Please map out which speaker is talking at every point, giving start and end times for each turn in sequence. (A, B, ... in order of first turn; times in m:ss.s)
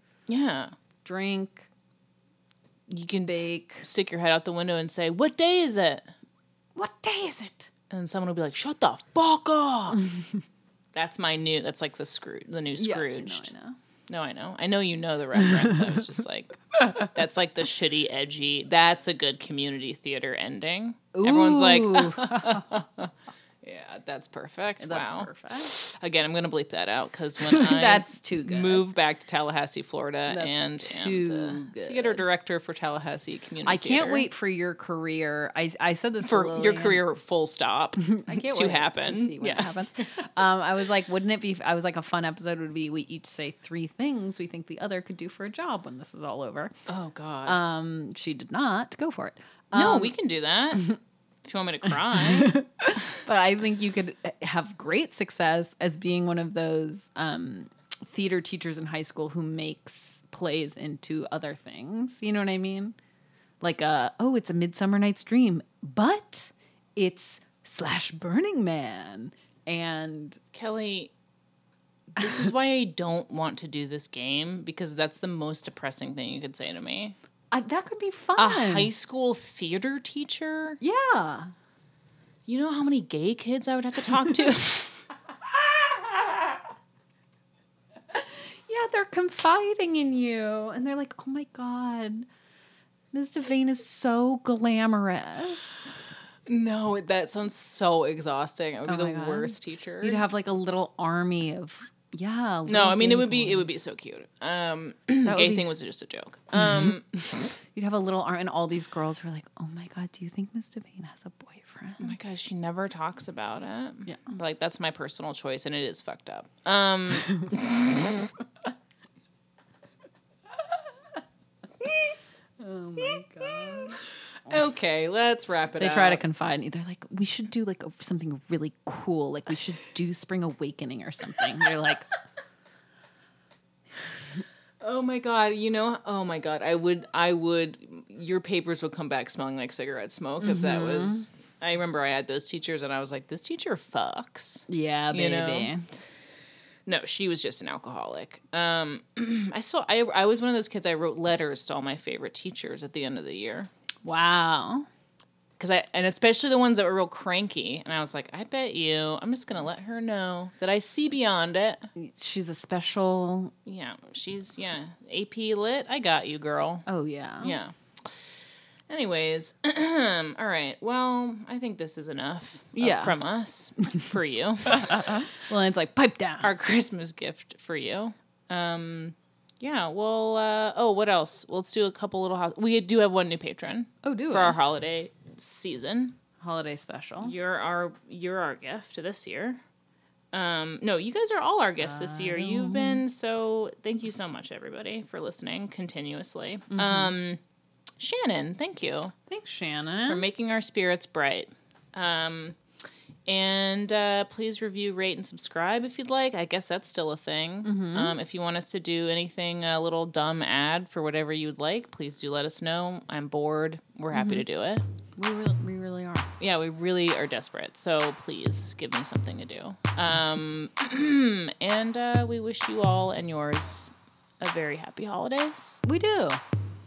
0:00.3-0:00.7 A
0:01.0-0:01.7 B
0:02.9-0:06.1 A
0:03.2-0:03.8 B
0:06.8-0:07.7 B
0:07.9-0:10.1 A
0:10.9-0:13.5 A
0:12.8-0:13.8 B
0:14.1-0:34.3 A
0:21.1-0:22.7 B
0:24.8-0:25.7 B
0:27.4-0:28.8 B
0:30.3-0:32.2 B
0:33.6-0:37.0 B
0:36.2-0:40.2 A
0:38.0-0:46.7 B
0:46.9-0:47.6 A
0:47.4-0:50.2 B
0:49.7-0:52.6 A
0:52.1-1:02.9 B
1:03.6-1:10.4 B
1:10.5-1:11.1 A
1:12.1-1:17.2 A
1:17.5-1:18.9 B
1:18.4-1:20.8 A
1:20.8-1:21.5 B
1:22.5-1:25.0 A
1:28.1-1:32.3 B
1:33.1-1:36.0 B
1:36.5-1:40.2 A
1:38.8-1:43.7 B
1:42.6-1:47.4 A
1:45.2-1:45.8 B
1:46.6-1:46.9 B
1:47.7-1:52.2 B
1:52.0-1:58.2 A
2:01.8-2:02.1 A
2:02.6-2:04.5 B
2:03.0-2:06.2 A
2:05.8-2:12.1 B
2:14.8-2:25.7 A
2:20.4-2:21.3 B
2:24.7-2:25.8 B
2:26.9-2:33.7 A
2:34.0-2:34.9 B
2:35.6-2:41.9 A
2:42.0-2:43.5 B
2:43.6-2:46.9 A
2:46.9-2:47.6 B
2:47.4-2:47.7 A
2:48.9-2:55.2 A
2:52.8-2:53.2 B
2:54.7-2:56.6 B
2:56.4-3:06.2 A
3:04.0-3:04.6 B
3:06.4-3:07.3 B
3:07.2-3:09.6 A
3:10.3-3:17.4 A
3:11.8-3:13.0 B
3:16.7-3:17.1 B
3:18.0-3:19.1 A
3:19.3-3:20.2 B
3:20.0-3:22.6 A
3:23.3-3:34.8 A
3:27.6-3:28.2 B
3:34.1-3:34.4 B
3:35.2-3:36.3 B
3:36.4-3:45.8 A
3:45.8-3:46.4 B